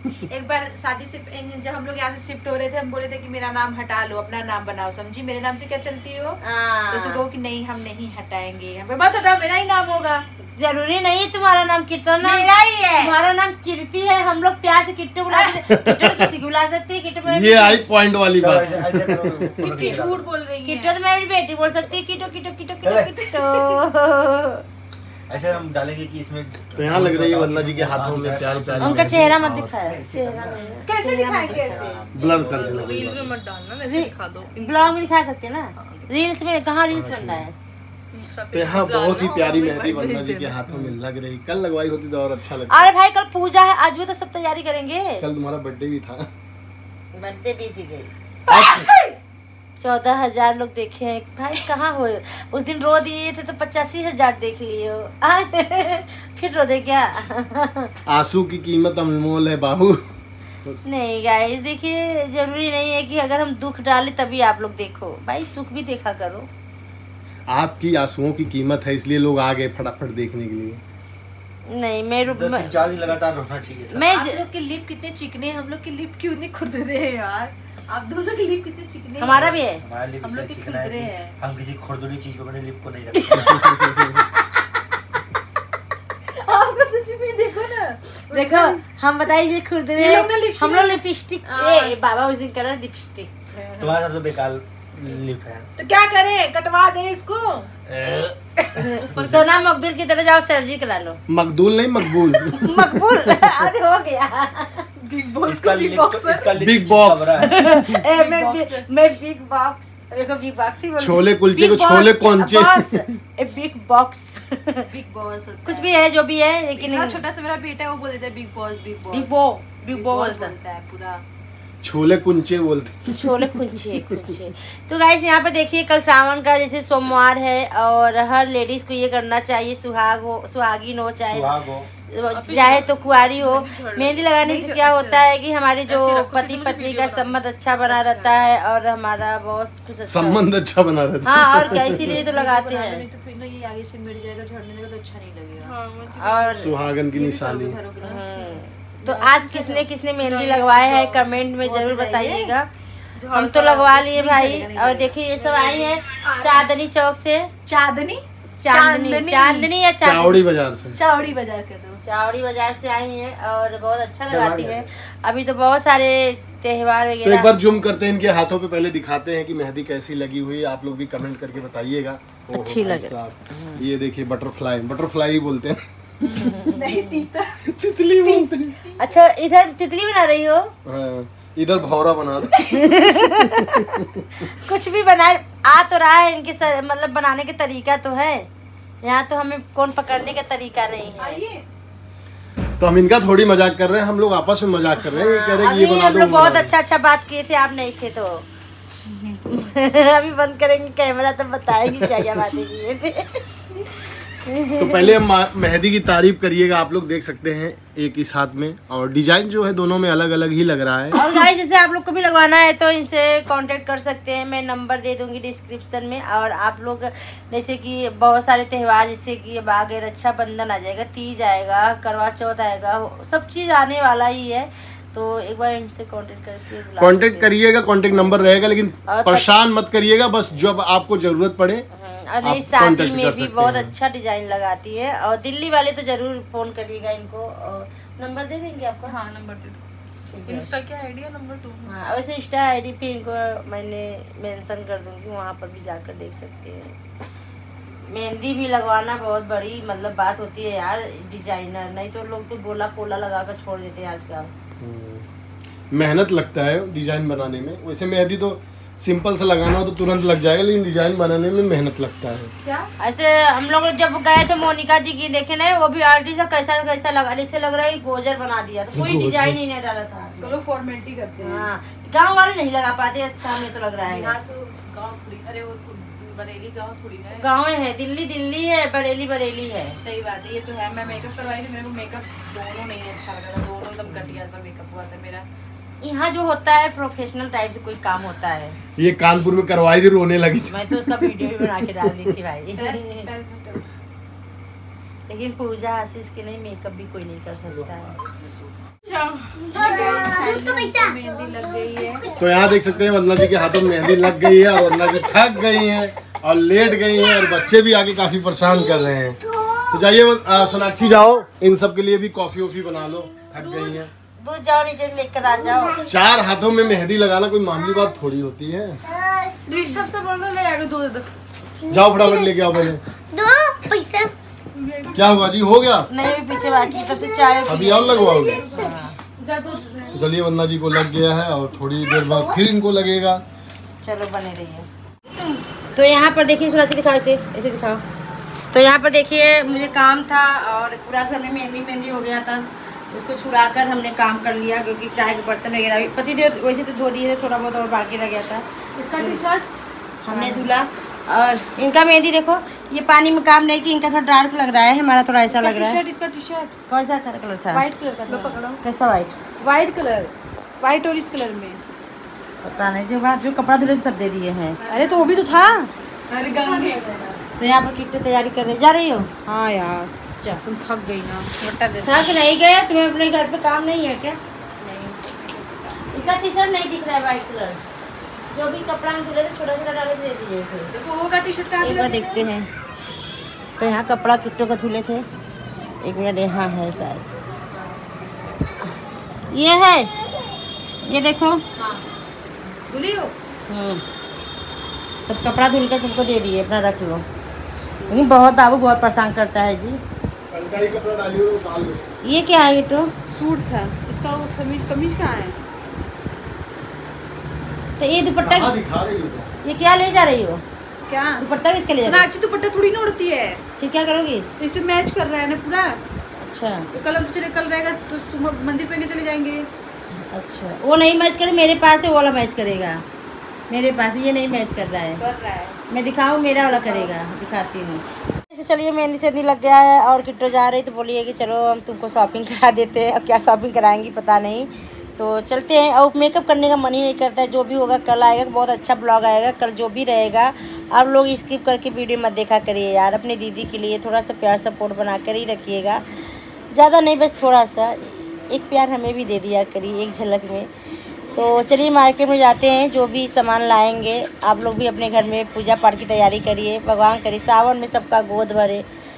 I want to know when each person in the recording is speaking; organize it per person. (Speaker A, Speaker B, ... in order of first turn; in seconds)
Speaker A: 0.2-6.4, 6.9-10.2, 12.2-13.1, 19.6-20.9, 23.4-23.8, 30.8-32.1, 74.0-79.4, 80.2-81.3, 83.6-84.0, 86.3-88.8, 90.0-90.9, 91.5-92.0, 95.8-97.7, 105.0-106.5, 108.0-108.9, 114.8-116.0, 116.8-121.2, 137.8-138.4, 141.8-145.7, 147.0-152.5, 153.3-156.7, 157.7-159.7, 160.9-162.0, 176.2-177.6, 178.2-179.3, 182.7-183.2, 191.2-191.6, 262.6-262.9, 270.4-271.7, 274.1-277.5, 279.9-285.4, 292.8-293.8, 299.6-302.3, 313.6-313.9, 319.6-321.6, 324.8-325.2, 329.4-330.2, 349.0-349.7, 350.3-350.7, 355.5-356.7, 357.7-358.6, 359.6-361.8, 364.8-367.4, 369.4-372.3, 374.8-376.3, 380.9-382.5, 391.8-392.0, 392.9-393.3, 398.0-398.3, 403.3-405.6, 411.1-411.4, 412.0-413.6, 414.6-416.0, 416.9-419.7, 425.2-425.8, 426.6-427.1
Speaker B: 6.4-7.2, 10.6-17.8, 20.6-24.6, 28.8-31.7, 33.8-37.5, 42.7-45.2, 47.1-48.1, 49.8-57.9, 60.8-66.5, 71.7-73.0, 73.9-74.4, 79.2-79.8, 88.3-93.9, 98.8-101.2, 102.3-104.8, 107.4-114.8, 115.6-117.2, 119.1-120.5, 123.1-131.5, 132.1-140.4, 141.2-143.0, 146.2-146.7, 148.0-152.7, 153.3-157.5, 158.6-160.4, 162.0-167.5, 172.5-173.8, 176.4-177.2, 179.0-180.7, 182.7-188.5, 189.0-191.4, 195.0-198.4, 199.5-205.2, 211.2-227.6, 228.1-228.5, 229.1-229.5, 231.9-239.1, 240.3-240.7, 241.8-246.9, 248.1-254.5, 263.0-270.6, 271.4-274.3, 277.3-280.0, 286.0-288.8, 290.7-293.3, 295.3-298.1, 314.4-316.0, 326.1-329.1, 334.0-334.9, 335.9-338.0, 338.7-349.4, 350.2-356.0, 356.9-357.8, 358.8-359.4, 362.6-364.8, 367.6-369.3, 372.0-374.4, 376.1-377.8, 378.5-380.9, 381.8-382.7, 383.8-385.2, 386.0-387.2, 389.5-390.1, 391.0-391.6, 393.7-394.0, 395.2-397.2, 398.1-400.0, 402.2-403.1, 408.0-408.8, 409.6-410.6, 411.4-412.3, 413.8-414.5, 416.4-416.9, 420.3-423.0, 423.7-425.2, 425.9-446.0, 446.7-450.7, 451.3-458.8
Speaker C: 15.7-16.3, 17.3-19.6, 26.8-29.7, 32.1-33.3, 36.9-37.5, 38.5-42.9, 45.2-46.3, 48.5-48.9, 58.1-60.0, 67.5-70.8, 101.3-103.3, 106.6-107.5, 111.0-113.0, 121.8-124.1, 140.1-142.2, 146.6-147.8, 160.0-161.0, 167.2-176.4, 177.7-178.8, 180.8-182.8, 183.8-184.1, 192.8-196.7, 202.0-202.4, 204.8-211.5, 227.0-231.8, 232.4-233.9, 254.8-255.2, 255.9-262.5, 268.9-269.6, 289.0-291.9, 302.4-314.1, 316.1-319.0, 321.9-323.0, 325.1-326.1, 327.6-328.7, 330.1-333.4, 400.5-402.1, 408.4-409.5
Speaker D: 18.4-20.3, 22.8-23.1, 25.3-29.2, 29.8-30.8, 31.4-33.2, 72.2-74.0, 79.2-84.1, 93.8-95.7, 97.9-98.4, 105.4-107.5, 131.3-131.9, 164.3-164.8, 297.6-298.8
Speaker E: 30.6-30.9, 32.1-35.0, 35.8-36.1, 38.1-40.6, 132.3-135.2, 135.9-137.4, 145.6-146.6, 150.3-151.1, 153.2-154.0, 239.1-239.8, 240.5-241.9, 358.3-358.6
Speaker F: 299.6-301.5, 323.3-324.3